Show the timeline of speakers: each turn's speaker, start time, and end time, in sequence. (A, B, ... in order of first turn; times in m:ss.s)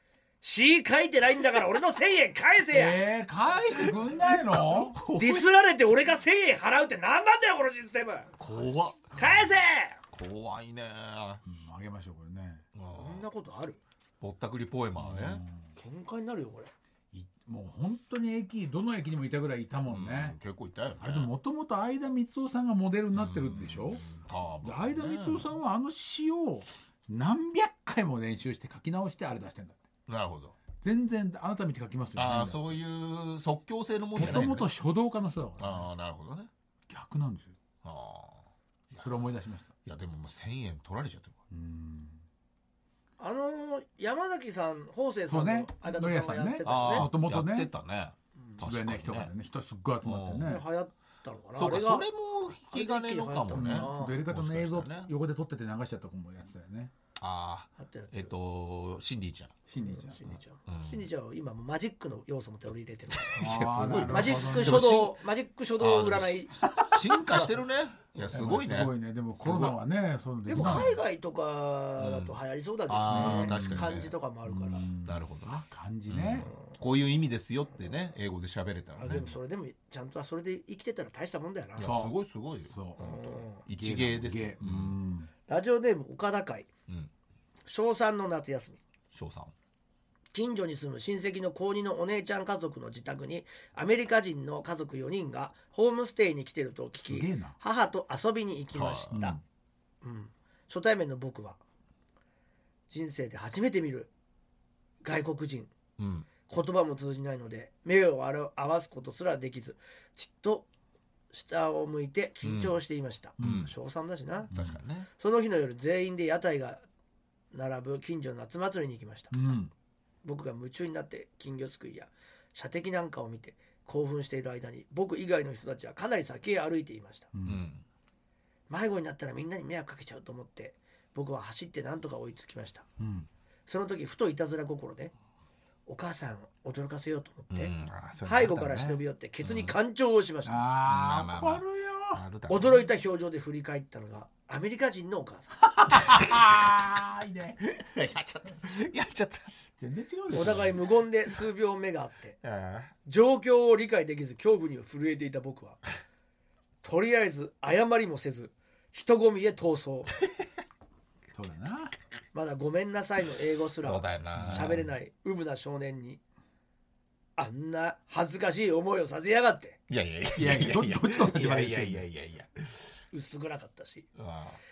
0:00.4-0:03.0 A
0:02.7-0:05.0 B
0:03.8-0:05.5 C
0:05.1-0:08.4 A
0:08.4-0:09.4 B
0:08.6-0:08.9 C
0:09.1-0:10.0 A
0:10.1-0:11.4 C
0:11.4-0:12.6 B
0:12.8-0:13.3 C
0:12.9-0:13.8 A
0:14.2-0:15.4 C
0:15.0-0:15.7 B
0:15.8-0:16.7 A
0:17.1-0:20.4 B
0:19.9-0:21.3 C
0:21.0-0:24.0 B
0:23.1-0:25.5 C
0:24.6-0:29.8 B
0:30.1-0:30.6 C
0:30.8-0:32.8 B
0:32.2-0:34.7 C
0:34.2-0:35.8 B
0:35.6-0:36.5 C
0:36.9-0:37.6 B
0:37.8-0:39.3 C
0:39.0-0:39.7 B
0:39.8-0:41.4 C
0:41.5-0:42.2 B
0:43.2-0:47.1 A
0:45.3-0:47.7 B
0:46.6-0:49.3 C
0:48.6-0:50.6 B
0:50.0-0:50.6 C
0:50.4-0:52.1 A
0:51.6-0:55.1 C
0:52.7-0:54.2 A
0:53.5-0:56.9 B
0:57.2-0:59.6 C
0:57.8-0:58.3 A
0:59.7-1:00.4 B
0:59.8-1:03.5 A
1:00.7-1:01.1 C
1:03.1-1:05.2 C
1:03.4-1:04.9 B
1:04.0-1:06.8 A
1:05.8-1:09.8 C
1:08.3-1:11.0 B
1:10.5-1:14.9 A
1:10.6-1:10.9 C
1:12.0-1:12.4 C
1:12.9-1:14.1 C
1:13.1-1:13.9 B
1:14.5-1:16.5 B
1:15.0-1:15.6 C
1:16.1-1:19.3 C
1:19.0-1:21.9 A
1:21.8-1:25.0 C
1:21.8-1:22.1 B
1:22.6-1:25.3 B
1:23.0-1:23.6 A
1:25.5-1:26.7 A
1:27.7-1:28.8 A
1:29.1-1:29.5 C
1:30.3-1:39.4 A
1:37.0-1:37.6 B
1:38.7-1:39.2 C
1:39.1-1:39.4 B
1:40.0-1:41.6 A
1:42.9-1:44.1 A
1:45.0-1:45.7 A
1:46.0-1:46.3 C
1:46.5-1:50.7 A
1:51.3-1:54.5 A
1:52.4-1:52.8 C
1:53.4-1:53.7 B
1:53.4-1:53.7 C
1:54.5-1:55.1 C
1:55.2-1:56.8 A
1:57.5-1:59.4 A
1:59.3-1:59.7 B
2:00.2-2:07.3 A
2:07.3-2:07.6 B
2:07.4-2:07.8 C
2:08.7-2:12.8 A
2:13.0-2:13.3 B
2:13.7-2:15.1 A
2:15.9-2:17.7 A
2:17.5-2:19.8 C
2:18.2-2:20.7 A
2:20.5-2:22.2 B
2:20.8-2:22.8 C
2:22.5-2:25.6 A
2:25.7-2:27.6 B
2:27.6-2:29.5 C
2:29.8-2:30.8 B
2:30.3-2:30.8 C
2:30.3-2:32.4 A
2:32.4-2:32.9 C
2:33.0-2:35.8 A
2:36.8-2:40.1 A
2:41.3-2:41.9 B
2:42.3-2:46.2 A
2:43.8-2:44.9 C
2:44.4-2:44.8 B
2:47.4-2:49.8 A
2:49.9-2:53.0 C
2:50.4-2:52.0 B
2:53.1-2:54.1 A
2:54.2-2:54.6 C